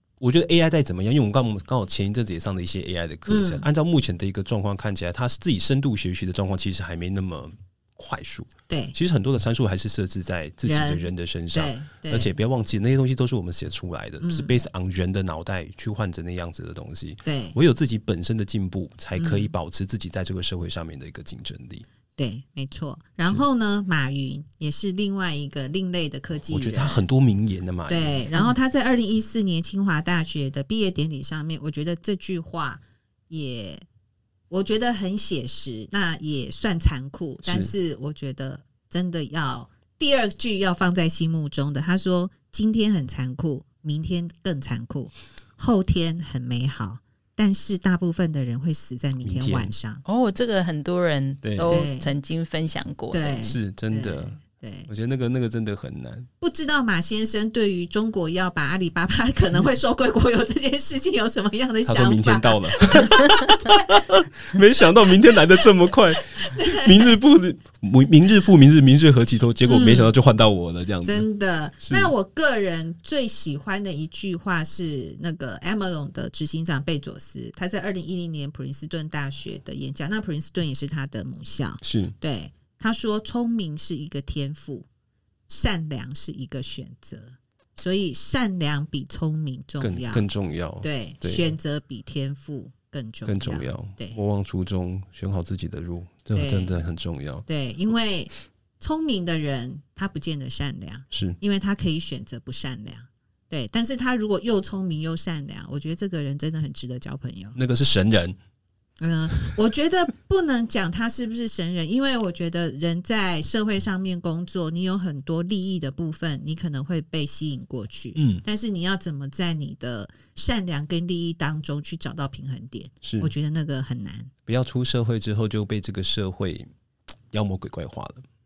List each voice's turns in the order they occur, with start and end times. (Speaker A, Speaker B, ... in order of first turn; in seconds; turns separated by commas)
Speaker A: 0.2-21.9, Speaker B: 3.3-3.7, Speaker B: 8.7-9.0, Speaker B: 10.7-12.3, Speaker B: 14.2-14.5, Speaker B: 17.2-17.6, Speaker B: 19.2-19.5, Speaker B: 22.2-27.1, Speaker A: 26.5-28.5, Speaker B: 27.9-33.9, Speaker B: 34.5-50.0, Speaker A: 37.4-37.7, Speaker A: 49.2-49.7, Speaker C: 50.0-53.4, Speaker A: 51.4-51.8, Speaker B: 51.7-52.1, Speaker B: 53.1-54.9, Speaker A: 53.4-54.4, Speaker A: 54.9-56.3, Speaker B: 56.4-64.0, Speaker A: 61.9-71.3, Speaker B: 66.4-67.1, Speaker B: 69.7-70.1, Speaker B: 71.0-84.9, Speaker A: 71.8-72.1, Speaker A: 81.8-82.2, Speaker B: 85.5-90.3, Speaker A: 89.8-91.5, Speaker B: 90.8-94.2, Speaker A: 93.3-97.5, Speaker B: 96.3-96.8, Speaker B: 97.5-107.6, Speaker A: 101.1-101.4, Speaker A: 107.5-108.4, Speaker B: 109.0-124.3, Speaker A: 118.2-118.4, Speaker A: 123.0-123.3, Speaker A: 124.5-126.7, Speaker A: 127.3-128.2